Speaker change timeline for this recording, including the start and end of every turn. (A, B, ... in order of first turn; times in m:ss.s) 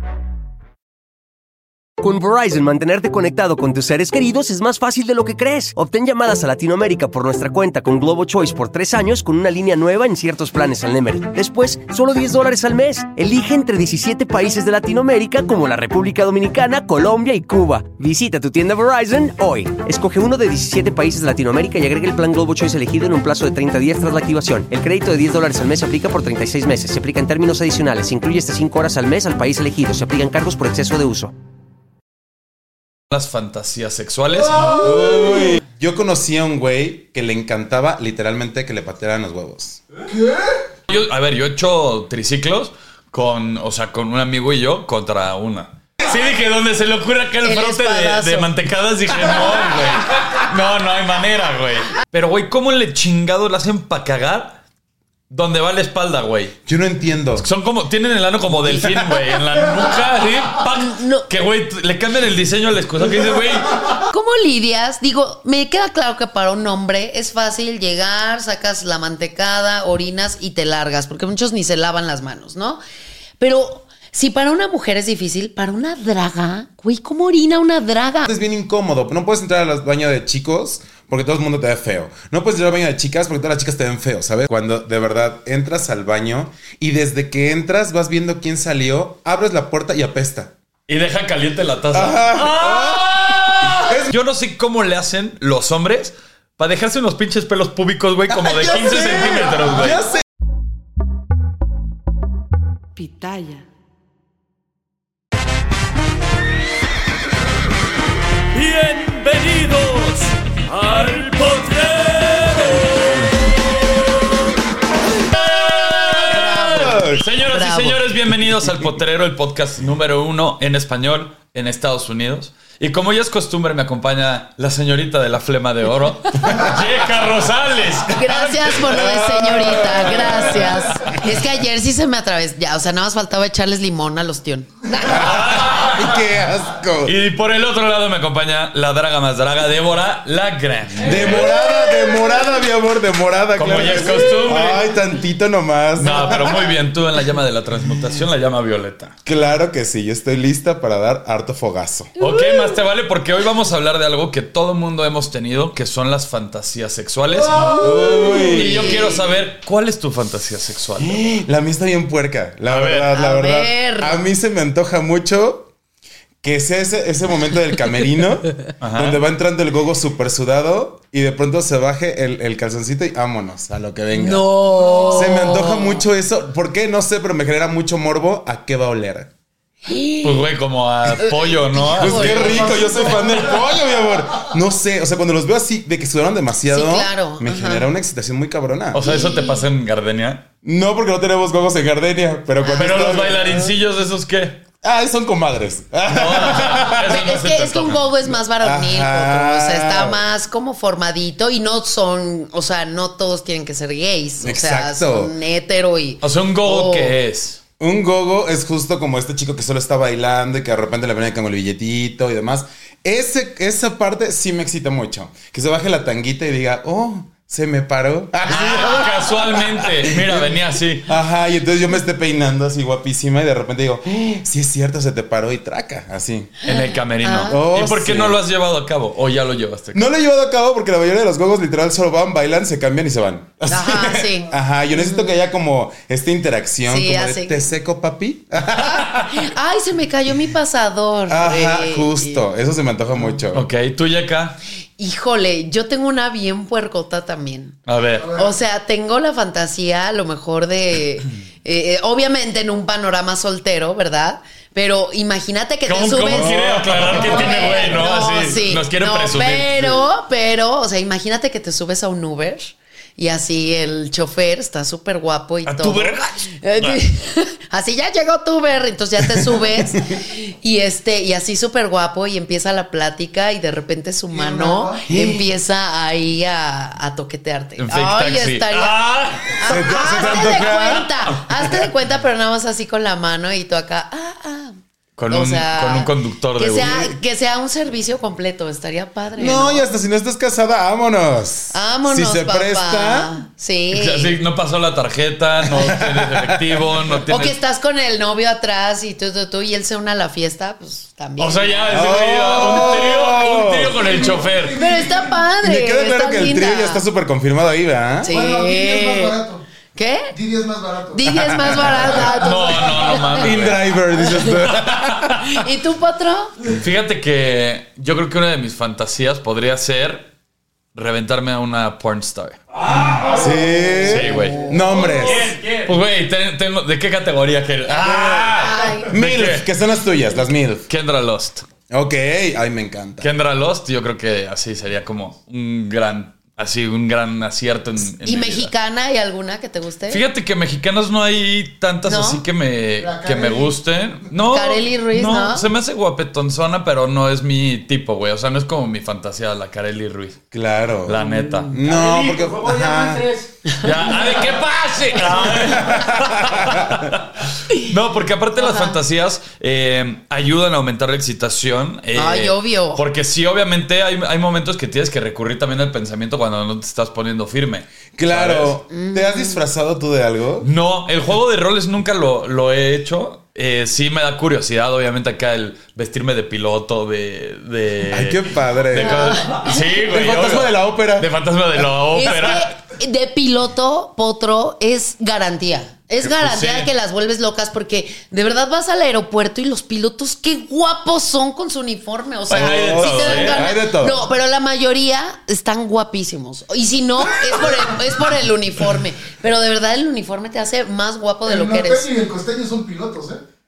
0:02.0-0:31.3 A
0:33.1-0:34.8 B
0:34.6-0:35.6 C
0:34.7-0:39.8 D
0:40.1-0:40.7 C
0:40.9-0:54.6 B
0:47.4-0:48.5 E
0:55.3-0:56.6 B
0:56.7-0:57.5 D
0:57.4-1:03.8 B
1:00.8-1:01.3 E
1:04.1-1:12.8 E
1:13.4-1:18.3 E
1:18.3-1:30.5 D
1:30.9-1:40.0 B
1:31.9-1:34.1 D
1:38.4-1:40.2 D
1:48.5-1:53.3 B
1:55.2-2:10.7 B
1:56.2-1:57.2 D
1:56.3-1:58.0 E
2:08.1-2:15.1 E
2:08.9-2:10.7 D
2:15.0-2:17.2 D
2:15.1-2:16.2 B
2:17.0-2:21.6 B
2:21.0-2:26.7 D
2:23.6-2:24.9 B
2:26.0-2:29.2 B
2:29.2-2:32.1 D
2:32.2-2:41.2 B
2:32.2-2:32.8 E
2:37.5-2:39.2 E
2:37.8-2:39.2 D
2:41.0-2:45.7 D
2:42.7-2:43.1 B
2:43.1-2:44.2 E
2:46.4-2:54.5 D
2:48.8-2:49.2 B
2:54.1-2:56.0 E
2:54.7-2:55.6 C
2:55.1-2:59.3 D
2:59.9-3:00.5 E
3:00.2-3:02.7 B
3:01.2-3:03.1 E
3:01.8-3:09.1 D
3:02.2-3:03.8 C
3:06.7-3:07.9 E
3:08.9-3:10.4 B
3:09.0-3:09.6 E
3:10.6-3:13.6 D
3:12.6-3:13.1 E
3:12.7-3:14.6 B
3:14.8-3:17.2 D
3:16.1-3:18.2 B
3:16.9-3:27.1 E
3:18.6-3:20.2 D
3:24.4-3:25.3 D
3:26.2-3:27.6 B
3:27.8-3:46.6 D
3:38.4-3:41.1 B
3:38.5-3:39.0 E
3:46.6-3:50.1 B
3:46.7-3:47.6 E
3:47.4-3:48.4 D
3:49.9-3:59.3 D
3:53.7-3:55.3 E
3:56.9-3:57.7 E
3:59.2-4:02.4 E
4:01.3-4:03.7 D
4:03.5-4:04.6 B
4:05.0-4:07.8 E
4:07.9-4:08.4 B
4:08.2-4:08.5 C
4:08.3-4:44.7 E
4:15.9-4:20.0 B
4:16.3-4:17.4 D
4:25.7-4:27.0 B
4:29.4-4:30.0 D
4:34.3-4:35.1 C
4:35.1-4:35.5 D
4:37.8-4:41.0 B
4:39.6-4:41.9 D
4:45.2-4:47.2 B
4:45.3-4:49.9 E
4:49.4-4:53.3 D
4:51.7-4:54.3 E
4:53.9-4:57.6 B
4:55.7-4:56.8 D
4:57.3-5:02.2 E
5:01.4-5:04.8 B
5:01.9-5:04.0 D
5:04.0-5:05.4 C
5:04.7-5:07.0 E
5:05.6-5:08.3 D
5:08.2-5:09.4 E
5:08.3-5:09.6 C
5:10.0-5:10.3 E
5:10.3-5:13.2 C
5:11.1-5:13.5 E
5:11.3-5:12.2 D
5:12.3-5:14.0 B
5:13.4-5:15.4 D
5:14.2-5:14.6 E
5:15.0-5:15.3 B
5:15.4-5:16.7 E
5:16.8-5:20.3 B
5:21.0-5:23.4 B
5:23.2-5:25.2 C
5:23.3-5:25.5 D
5:24.0-5:24.7 B
5:24.3-5:24.8 E
5:25.2-5:29.7 B
5:28.0-5:30.9 D
5:28.3-5:29.1 E
5:30.9-5:31.7 B
5:31.9-5:33.3 D
5:33.2-5:38.7 B
5:38.1-5:40.2 E
5:40.1-5:50.4 B
5:42.0-5:42.4 E
5:43.0-5:43.8 C
5:44.5-5:45.7 E
5:50.5-5:53.3 D
5:51.0-5:51.7 B
5:51.2-5:51.7 E
5:51.8-5:54.6 C
5:53.8-6:08.8 B
5:55.5-5:57.1 D
5:58.6-5:59.0 E
6:02.1-6:03.0 E
6:08.2-6:10.7 D
6:08.9-6:09.6 E
6:10.6-6:22.7 B
6:18.1-6:19.4 D
6:19.0-6:19.9 E
6:20.0-6:21.3 D
6:22.1-6:42.1 E
6:26.2-6:26.9 B
6:32.5-6:33.7 B
6:32.5-6:34.3 D
6:41.5-6:43.4 C